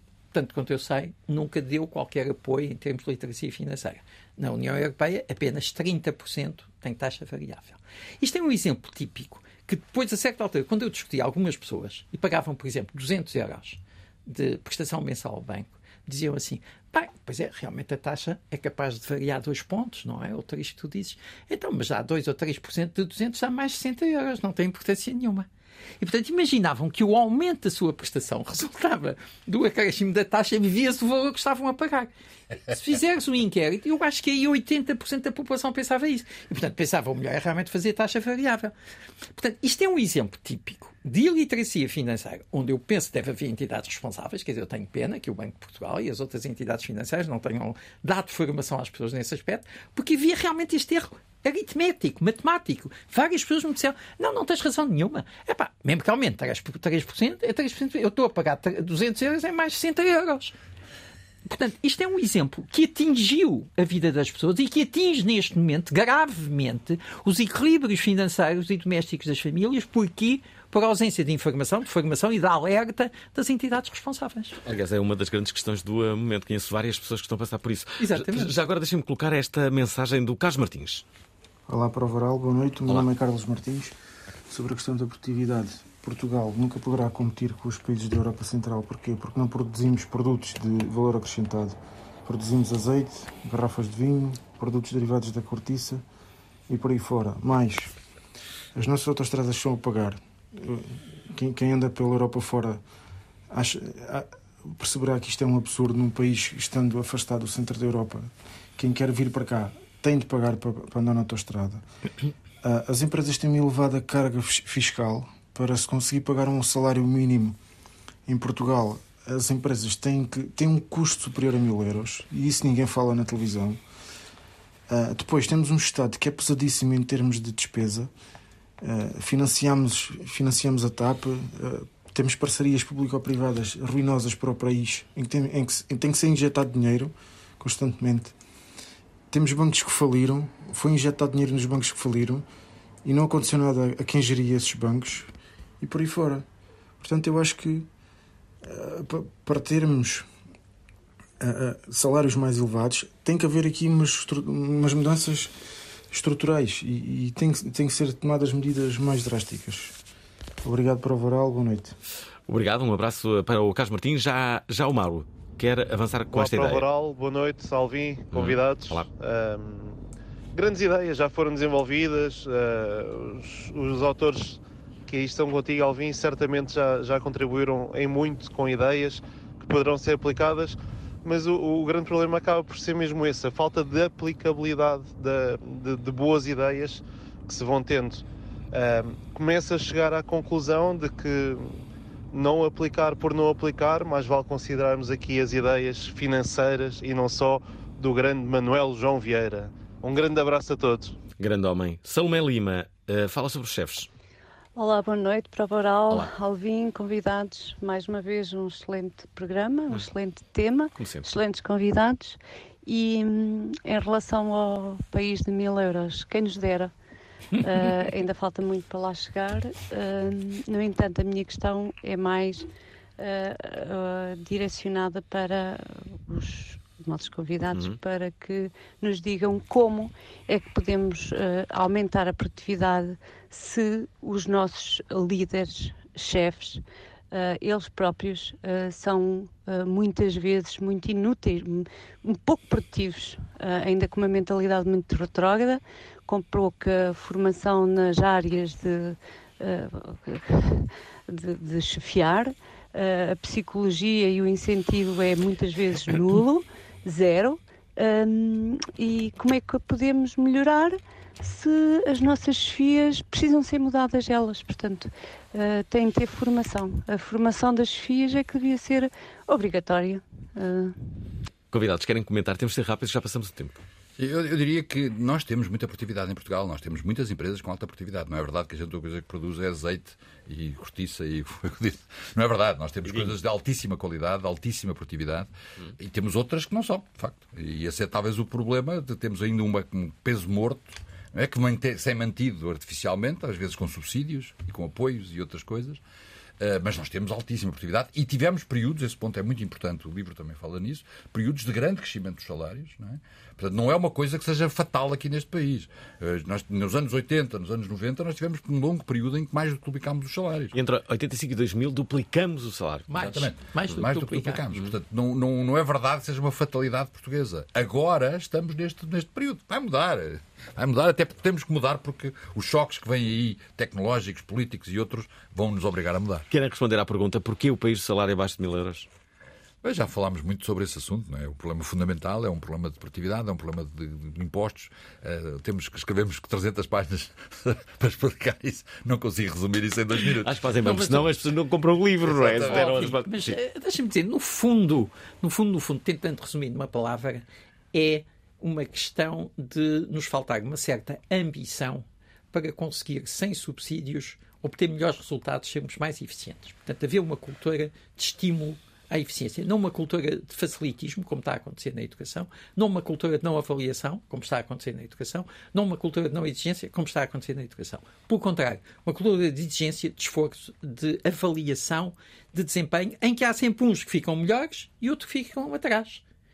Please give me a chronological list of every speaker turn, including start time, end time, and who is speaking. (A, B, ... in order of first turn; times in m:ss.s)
0:00.3-0:25.5 A
0:26.0-0:32.1 A
0:32.7-0:38.7 A
0:39.4-1:00.6 A
1:01.5-1:14.6 A
1:14.6-1:21.0 B
1:18.0-1:18.5 A
1:21.7-1:24.0 C
1:24.5-1:36.0 C
1:36.7-1:37.9 C
1:38.8-1:42.8 C
1:43.5-1:51.8 C
1:52.6-1:57.6 C
1:58.3-2:03.8 C
2:04.9-2:08.1 C
2:08.8-2:18.4 C
2:19.3-2:22.5 C
2:23.0-2:26.5 C
2:27.0-2:27.9 C
2:28.6-2:30.3 C
2:31.4-2:35.5 C
2:36.1-2:40.0 C
2:40.6-2:42.0 C
2:42.5-2:46.8 B
2:46.3-3:21.2 D
2:48.3-2:49.1 B
3:21.4-3:24.1 B
3:24.8-3:36.9 E
3:31.0-3:31.3 B
3:37.6-4:31.0 E
3:47.7-3:48.0 B
4:31.7-4:33.8 B
4:34.2-4:56.0 F
4:43.1-4:43.4 B
4:56.6-5:10.8 F
5:10.7-5:13.4 B
5:13.1-5:14.6 A
5:13.2-5:26.5 F
5:26.5-5:29.1 B
5:29.8-5:40.6 F
5:40.4-5:43.6 B
5:40.8-5:41.3 A
5:42.2-5:43.1 F
5:42.6-6:16.2 A